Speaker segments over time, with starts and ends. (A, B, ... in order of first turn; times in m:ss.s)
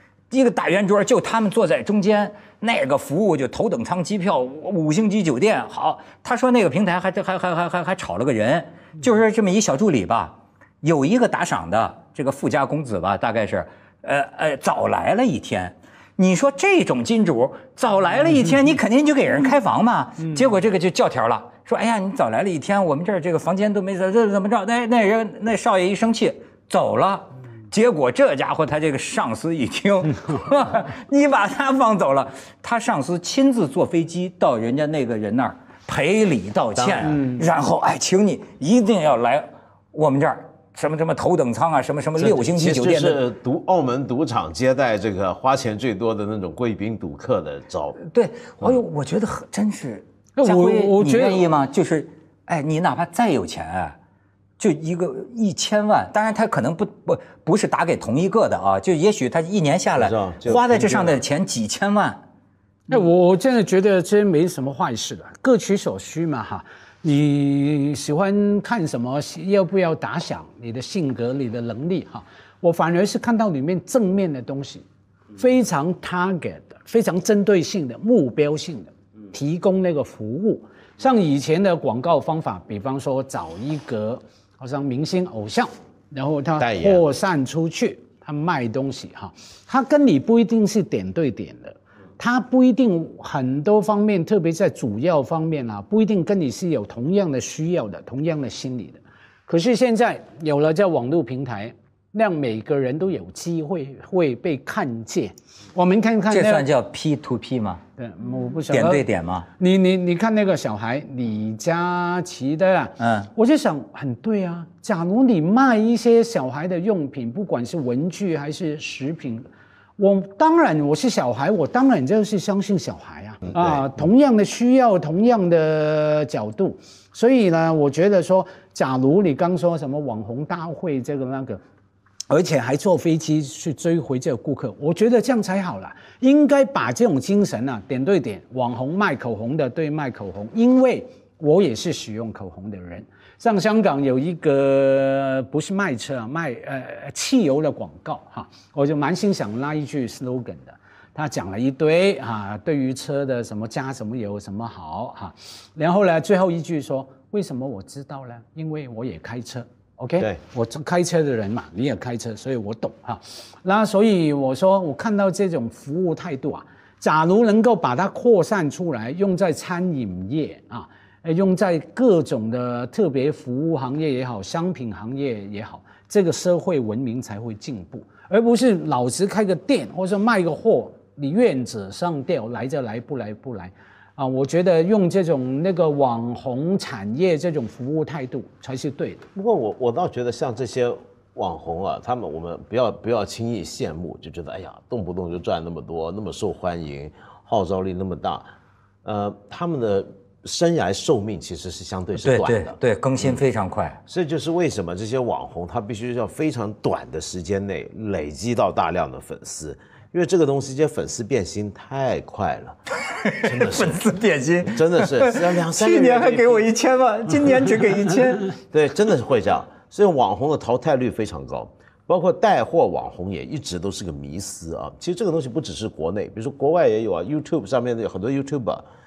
0:00.3-0:43.2 A
0:36.8-0:37.4 B
0:42.2-0:48.0 B
0:48.0-0:54.0 A
0:50.4-0:51.5 C
0:54.6-1:02.2 A
1:00.0-1:01.2 B
1:02.9-1:14.8 C
1:15.4-1:46.7 C
1:26.6-1:27.0 B
1:46.3-1:47.8 A
1:48.0-1:49.0 C
1:48.7-1:49.5 A
1:49.6-1:59.5 C
1:53.0-1:53.3 A
2:00.0-2:11.6 C
2:03.5-2:03.8 B
2:12.3-3:09.3 C
3:09.4-3:18.5 B
3:19.0-3:23.3 B
3:22.2-3:24.0 A
3:24.1-3:32.8 B
3:33.1-3:38.5 A
3:33.4-3:34.0 B
3:34.6-3:36.7 B
3:38.7-3:48.8 B